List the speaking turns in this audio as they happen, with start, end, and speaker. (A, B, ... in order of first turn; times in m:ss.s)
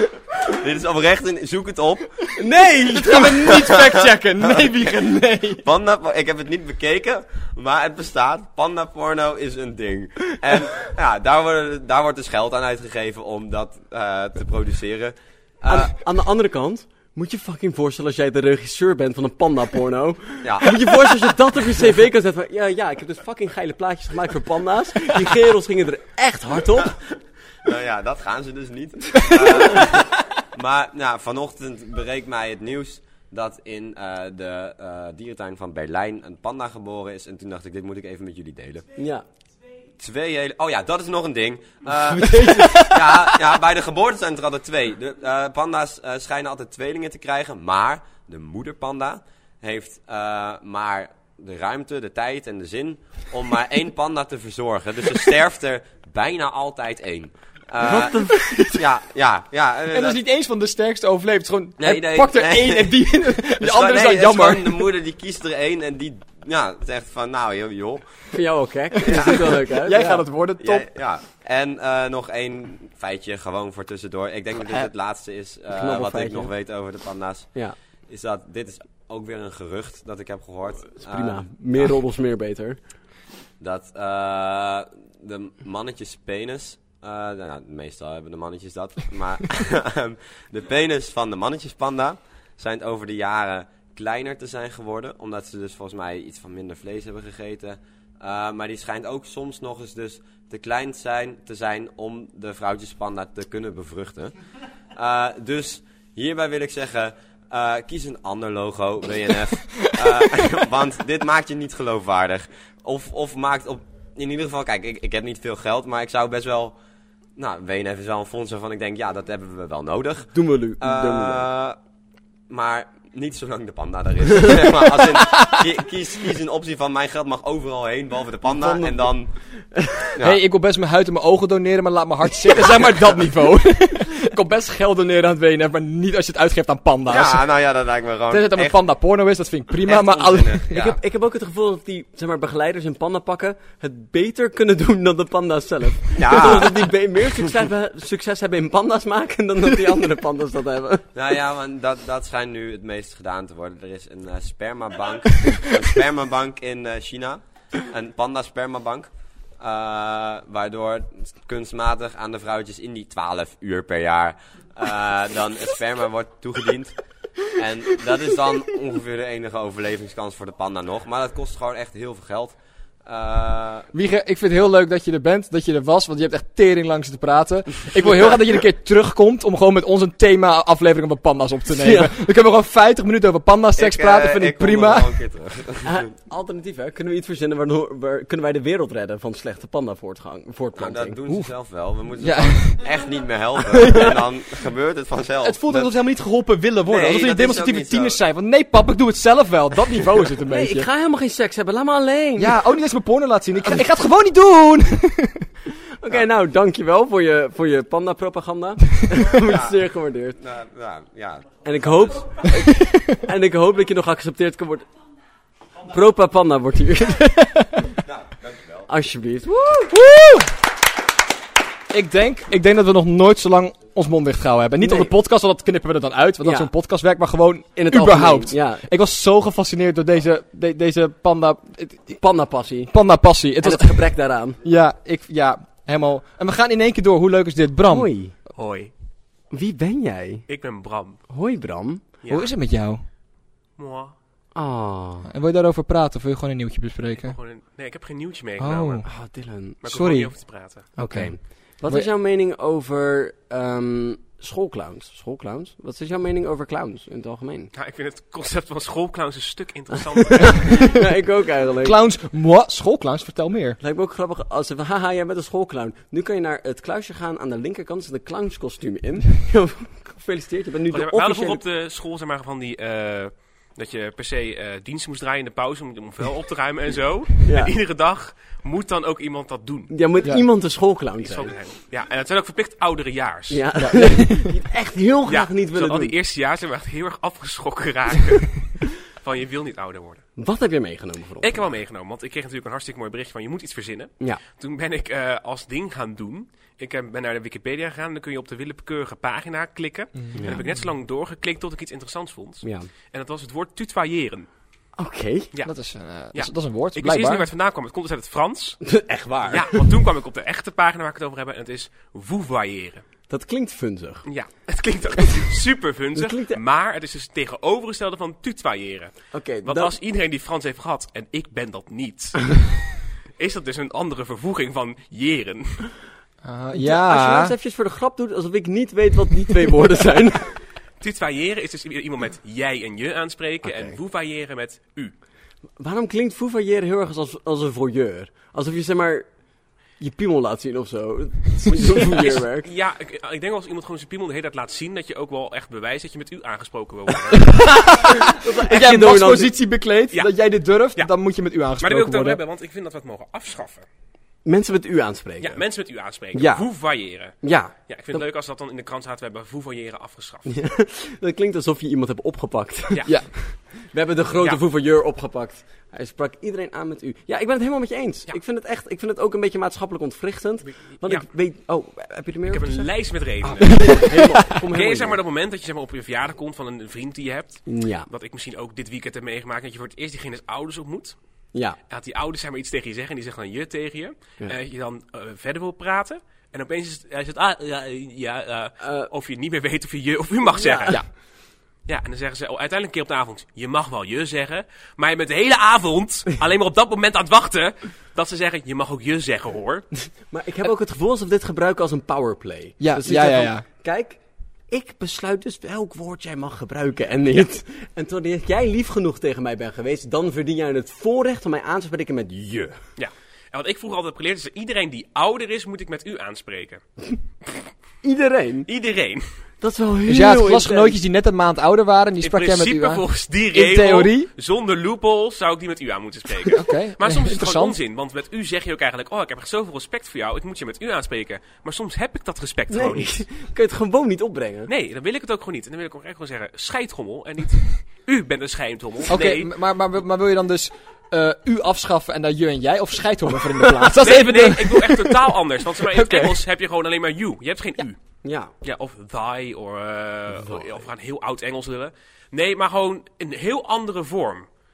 0:00.5-0:02.2 A
0:02.4-0:03.6 B
0:03.0-0:05.6 C
0:03.6-0:04.0 A
0:05.6-0:15.9 A
0:15.7-0:27.0 B
0:20.4-0:20.7 A
0:27.6-0:38.9 A
0:39.0-0:39.2 B
0:40.0-1:00.2 A
0:42.2-0:42.9 B
0:57.8-0:58.8 B
0:59.9-1:04.9 C
1:01.8-1:08.0 A
1:08.3-1:10.2 B
1:09.0-1:09.4 A
1:09.1-1:10.9 C
1:10.6-1:17.5 A
1:15.7-1:16.5 B
1:18.1-1:21.4 A
1:21.0-1:22.8 B
1:23.6-1:44.4 A
1:44.9-1:56.8 A
1:57.4-2:01.8 A
2:00.3-2:01.5 B
2:02.5-2:09.3 A
2:08.4-2:10.0 B
2:10.2-2:17.6 C
2:17.1-2:18.8 A
2:18.3-2:20.9 C
2:19.8-2:20.9 A
2:20.7-2:31.1 B
2:26.2-2:26.8 A
2:31.1-2:47.0 A
2:47.5-2:53.9 A
2:53.9-3:05.1 C
3:01.8-3:02.1 B
3:03.8-3:06.1 A
3:05.8-3:11.2 B
3:10.8-3:15.9 A
3:12.2-3:12.9 C
3:15.4-3:20.9 C
3:16.9-3:18.2 A
3:20.5-3:22.6 B
3:22.4-3:25.5 C
3:26.0-3:30.4 B
3:29.5-3:29.8 A
3:30.4-3:32.2 A
3:31.6-3:34.9 B
3:35.9-3:37.3 B
3:37.4-3:37.7 C
3:38.0-3:38.9 A
3:38.9-3:39.9 B
3:39.9-3:40.5 C
3:41.9-3:52.2 C
3:44.8-3:45.1 B
3:46.4-3:46.7 B
3:47.8-3:48.9 B
3:52.2-3:54.6 B
3:52.9-3:54.1 C
3:54.6-3:58.2 C
3:57.9-3:58.4 B
3:58.6-3:58.9 D
3:59.5-4:00.5 B
4:00.5-4:01.3 D
4:01.3-4:02.1 B
4:02.2-4:02.5 D
4:02.3-4:03.1 C
4:03.8-4:04.1 D
4:04.5-4:05.3 B
4:05.2-4:07.4 C
4:07.2-4:09.0 D
4:08.6-4:09.1 C
4:09.0-4:09.8 B
4:09.8-4:10.9 D
4:09.8-4:12.1 C
4:11.0-4:17.7 B
4:17.7-4:20.8 D
4:20.4-4:22.0 B
4:21.8-4:23.8 C
4:23.8-4:31.6 B
4:30.9-4:40.0 D
4:37.4-4:37.7 B
4:39.9-4:41.6 B
4:41.2-4:43.6 D
4:43.5-4:46.1 B
4:43.8-4:44.5 C
4:45.3-4:50.3 D
4:50.4-4:51.7 B
4:51.4-5:04.5 D
5:00.2-5:00.7 C
5:00.4-5:00.6 B
5:02.6-5:02.9 B
5:05.0-5:05.5 B
5:05.6-5:07.5 C
5:06.3-5:13.0 D
5:08.8-5:09.8 B
5:13.3-5:14.3 B
5:14.2-5:26.0 D
5:16.2-5:16.6 B
5:19.3-5:19.9 B
5:26.4-5:27.5 C
5:26.8-5:30.5 B
5:31.0-5:35.2 D
5:33.6-5:34.0 B
5:35.8-5:39.3 B
5:40.0-5:42.7 B
5:42.2-5:47.5 D
5:47.4-5:52.4 C
5:48.3-5:49.5 B
5:50.1-5:51.1 D
5:51.8-5:53.8 D
5:54.4-5:55.7 B
5:55.4-6:00.5 D
5:56.3-5:56.7 B
5:57.4-5:58.2 B
6:00.5-6:15.2 B
6:10.7-6:11.3 D
6:12.5-6:14.1 D
6:13.7-6:14.2 C
6:14.7-6:21.2 D
6:17.7-6:18.1 B
6:21.9-6:40.0 D
6:28.8-6:29.1 B
6:30.5-6:31.0 B
6:40.3-6:52.8 B
6:42.8-6:43.7 C
6:53.0-6:56.8 D
6:58.0-6:58.7 B
6:58.7-6:59.2 D
6:59.6-7:01.0 B
7:00.1-7:04.3 C
7:02.2-7:13.3 D
7:06.5-7:07.8 C
7:12.7-7:14.7 B
7:14.7-7:19.5 D
7:19.1-7:25.2 C
7:24.0-7:34.5 D
7:28.2-7:28.5 B
7:30.3-7:30.9 B